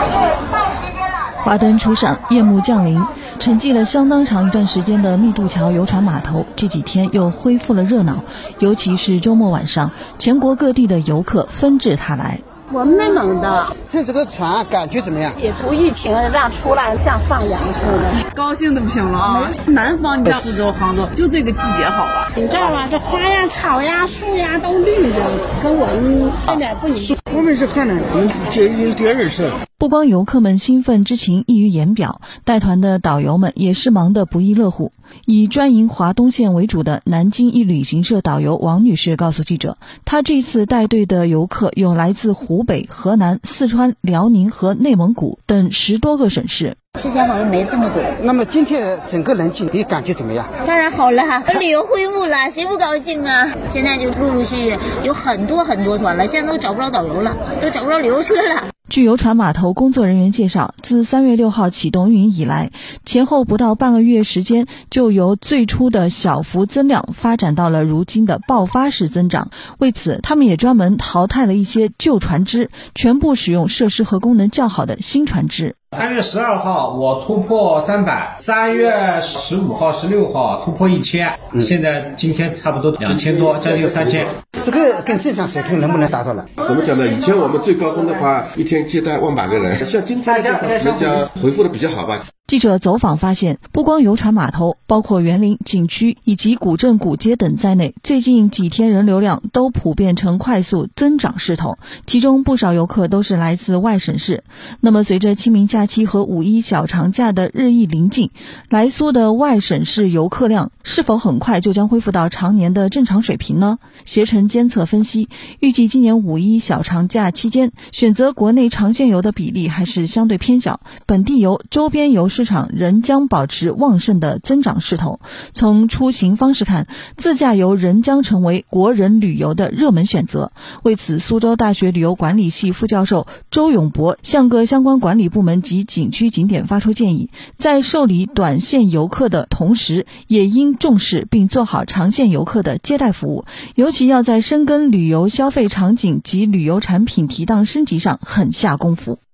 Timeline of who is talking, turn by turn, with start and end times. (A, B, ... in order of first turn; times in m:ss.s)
0:01.4-0:12.4 A
0:12.7-0:13.7 B
0:13.9-0:15.4 C
0:15.4-0:18.2 B
0:18.3-0:22.3 D
0:22.4-0:27.2 B
0:27.3-0:29.6 C
0:29.8-0:46.8 A
0:47.0-0:48.1 E
0:48.2-0:50.5 C
0:50.7-0:58.7 E
0:58.9-1:15.8 A
1:16.0-1:24.3 F
1:23.1-1:24.0 G
1:24.6-1:26.5 C
1:26.7-1:32.3 G
1:30.2-1:31.3 F
1:32.5-2:29.2 A